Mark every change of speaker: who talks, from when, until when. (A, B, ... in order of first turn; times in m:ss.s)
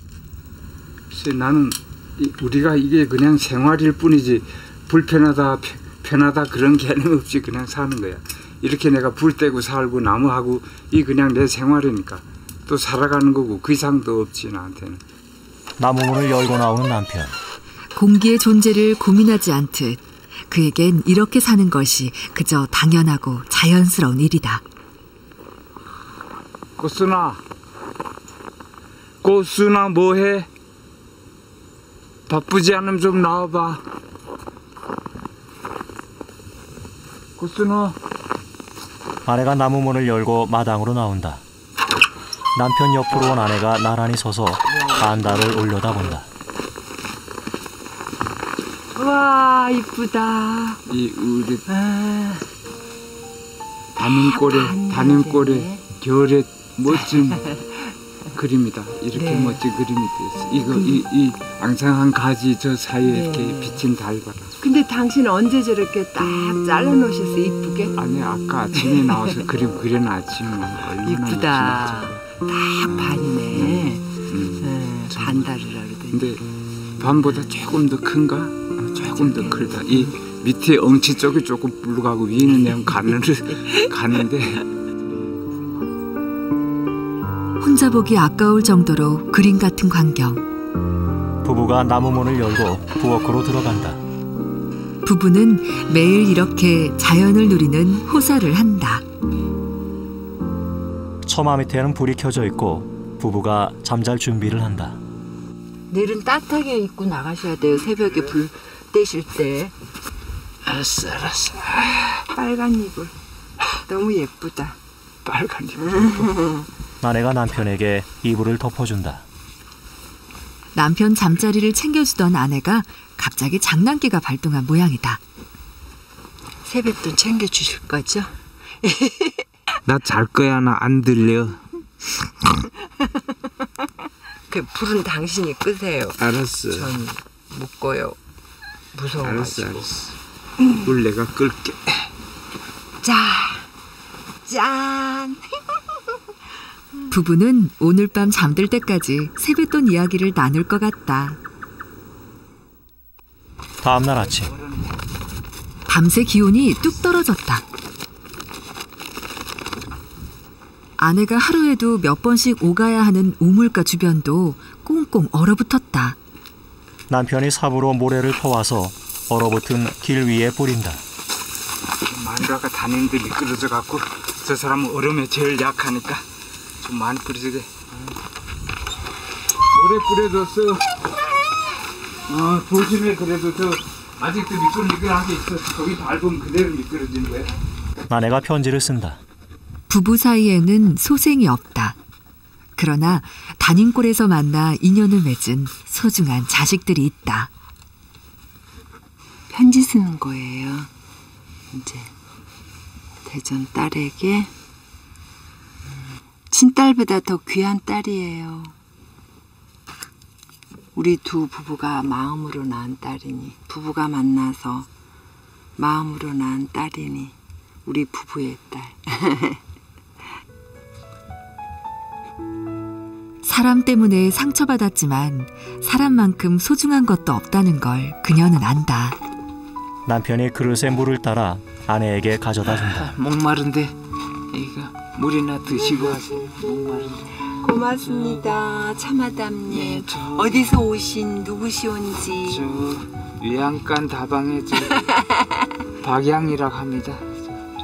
0:01.1-0:15.0 A
0:15.8-0:17.4 B
0:17.9-0:24.6 C
0:26.8-0:27.4 A
0:29.2-0:30.5 A
0:32.3-0:33.8 A
0:37.4-0:38.0 A
0:39.2-0:41.4 B
0:42.5-0:46.3 B
0:44.8-0:45.0 D
0:48.9-0:50.8 D
0:50.9-0:51.6 A
0:51.7-0:52.4 D
0:53.9-0:57.4 A
0:54.0-0:55.8 D
0:56.9-0:57.8 D
0:58.3-1:04.5 A
0:59.1-0:59.6 D
1:03.0-1:03.8 D
1:04.6-1:08.0 D
1:08.0-1:12.2 A
1:08.8-1:09.4 D
1:11.0-1:16.4 D
1:12.9-1:15.5 A
1:16.1-1:16.4 A
1:17.0-1:24.7 A
1:19.0-1:20.1 D
1:27.6-1:30.4 C
1:31.4-1:34.0 B
1:35.0-1:39.0 C
1:41.2-1:45.0 B
1:45.9-1:49.7 D
1:50.6-1:52.2 A
1:52.3-1:53.1 D
1:53.9-1:54.8 D
1:55.2-1:56.3 A
1:56.2-1:56.6 D
1:57.0-1:59.2 B
2:00.7-2:05.2 C
2:06.6-2:09.4 D
2:09.8-2:11.6 A
2:14.5-2:18.2 D
2:16.2-2:17.0 A
2:18.9-2:19.9 D
2:19.2-2:20.1 A
2:20.7-2:22.1 A
2:23.0-2:23.7 D
2:24.4-2:25.6 D
2:27.1-2:31.4 C
2:33.8-2:34.5 B
2:35.9-2:37.6 C
2:41.0-2:46.2 C
2:47.1-2:51.0 B
2:52.0-2:56.3 A
2:56.8-2:58.1 A
2:59.7-3:00.9 A
3:02.2-3:07.5 A
3:08.1-3:09.2 B
3:09.9-3:12.0 C
3:12.8-3:17.5 C
3:19.5-3:20.9 D
3:21.7-3:22.1 D
3:23.2-3:24.5 D
3:26.5-3:28.7 D
3:30.9-3:34.9 D
3:35.8-3:39.6 D
3:43.4-3:49.2 C
3:50.0-3:53.1 B
3:52.7-3:54.0 A
3:54.5-3:57.5 A
3:57.6-4:02.6 D
3:58.1-3:58.4 A
3:59.7-4:00.6 A
4:02.4-4:05.1 A
4:06.0-4:07.6 A